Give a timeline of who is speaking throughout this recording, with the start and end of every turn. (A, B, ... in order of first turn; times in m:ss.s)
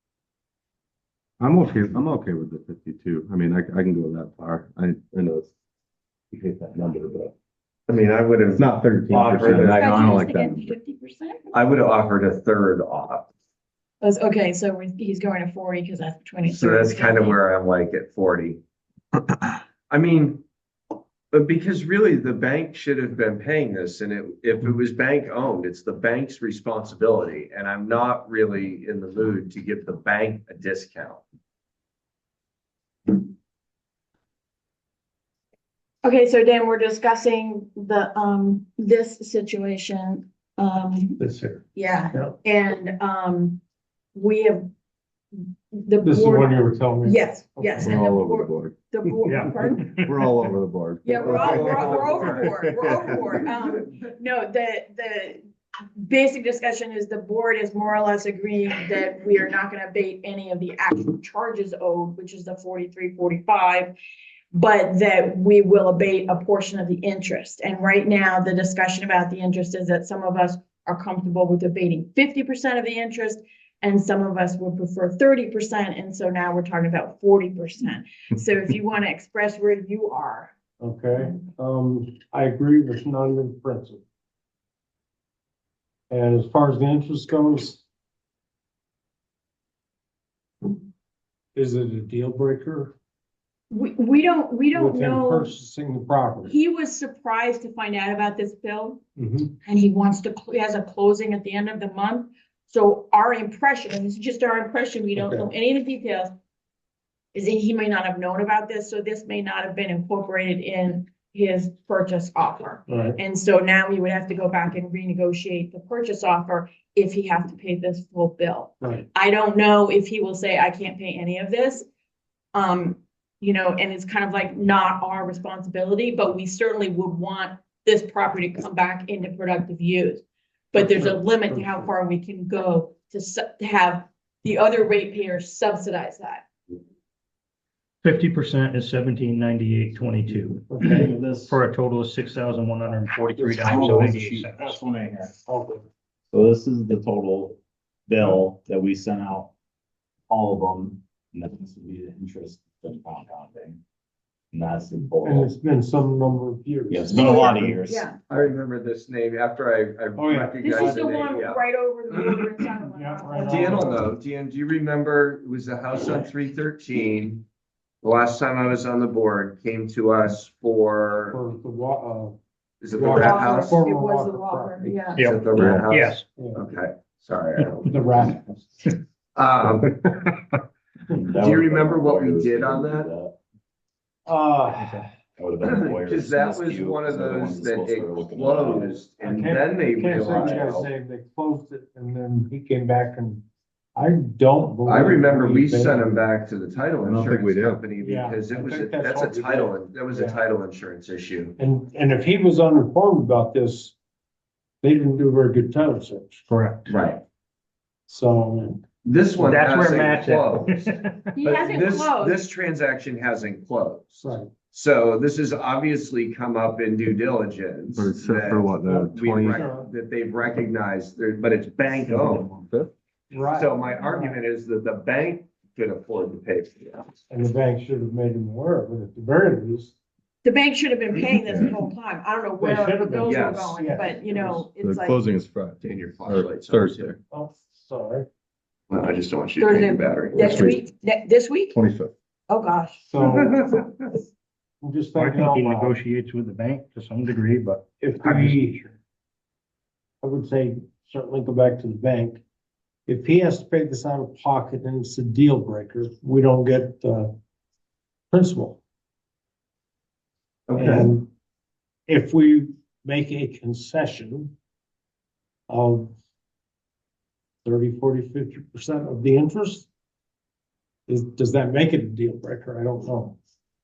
0:01.4-0:05.5 A
0:06.3-0:07.3 A
0:07.9-0:10.0 B
0:08.6-0:10.6 A
0:09.4-0:10.7 C
0:09.8-0:11.5 D
0:11.5-0:13.3 B
0:14.0-0:17.4 D
0:16.5-0:18.6 B
0:19.9-0:20.4 B
0:21.3-0:31.2 B
0:36.0-0:41.2 D
0:41.2-0:41.6 E
0:41.8-0:43.6 D
0:44.2-0:44.6 D
0:45.4-0:49.9 D
0:46.0-0:47.9 E
0:47.8-0:48.8 A
0:49.3-0:50.2 F
0:50.1-0:53.4 A
0:51.0-0:55.4 D
0:51.2-0:52.5 B
0:56.0-1:04.0 D
1:04.5-1:20.5 D
1:20.8-1:24.0 E
1:26.1-1:27.8 E
1:31.6-1:33.0 E
1:33.7-1:35.5 D
1:34.7-1:36.6 E
1:36.5-1:39.0 D
1:39.2-1:39.5 E
1:39.6-1:46.3 D
1:45.2-1:45.5 E
1:47.3-2:01.9 D
1:52.9-1:53.2 E
2:02.5-2:16.4 D
2:10.8-2:11.9 E
2:18.0-2:24.8 F
2:20.7-2:21.0 E
2:20.9-2:21.6 C
2:23.4-2:24.1 E
2:23.7-2:25.4 C
2:25.5-2:25.8 E
2:26.3-2:27.6 C
2:28.1-2:29.5 C
2:30.3-2:33.8 C
2:34.5-2:35.5 C
2:35.2-2:37.8 E
2:36.9-2:38.1 C
2:37.3-2:38.2 D
2:38.3-2:42.5 B
2:40.2-2:41.0 E
2:40.6-2:44.0 D
2:42.8-2:44.0 E
2:43.4-2:47.4 B
2:48.0-2:51.4 B
2:51.3-2:52.4 E
2:52.8-2:53.8 B
2:52.9-2:54.9 E
2:53.1-2:55.3 D
2:55.1-2:56.3 F
2:55.2-2:58.0 B
2:55.6-2:55.8 A
2:57.8-2:58.7 E
2:59.4-3:00.1 B
3:01.1-3:03.4 C
3:01.4-3:03.1 B
3:04.3-3:05.1 E
3:04.8-3:09.0 C
3:05.6-3:10.9 B
3:09.2-3:13.4 E
3:14.0-3:16.2 E
3:14.9-3:21.6 B
3:17.0-3:17.8 A
3:18.0-3:20.4 E
3:21.6-3:24.0 E
3:24.8-3:26.5 E
3:26.5-3:26.9 F
3:26.9-3:27.2 B
3:28.1-3:28.8 E
3:29.0-3:30.8 B
3:29.4-3:29.6 E
3:29.4-3:31.1 F
3:31.4-3:32.3 D
3:31.4-3:42.5 B
3:34.2-3:34.5 E
3:38.0-3:39.6 A
3:39.4-3:39.9 E
3:42.1-3:42.9 A
3:43.3-3:44.4 E
3:43.5-3:47.1 B
3:47.3-3:50.0 E
3:50.4-3:55.2 D
3:51.4-3:51.7 A
3:52.6-3:54.7 E
3:53.2-3:53.8 B
3:54.8-3:57.2 A
3:55.8-3:57.2 B
3:57.3-3:58.3 E
3:58.9-4:00.7 B
3:59.6-4:01.8 D
4:00.4-4:00.8 A
4:01.7-4:02.1 A
4:02.5-4:03.0 D
4:03.1-4:03.6 E
4:03.2-4:03.9 B
4:04.8-4:06.0 E
4:05.2-4:08.6 F
4:08.0-4:09.0 E
4:10.2-4:12.4 E
4:13.1-4:17.3 E
4:18.3-4:18.8 E
4:20.7-4:21.1 B
4:20.8-4:21.3 E
4:22.1-4:24.5 E
4:25.7-4:26.2 E
4:27.6-4:29.9 E
4:31.1-4:33.4 E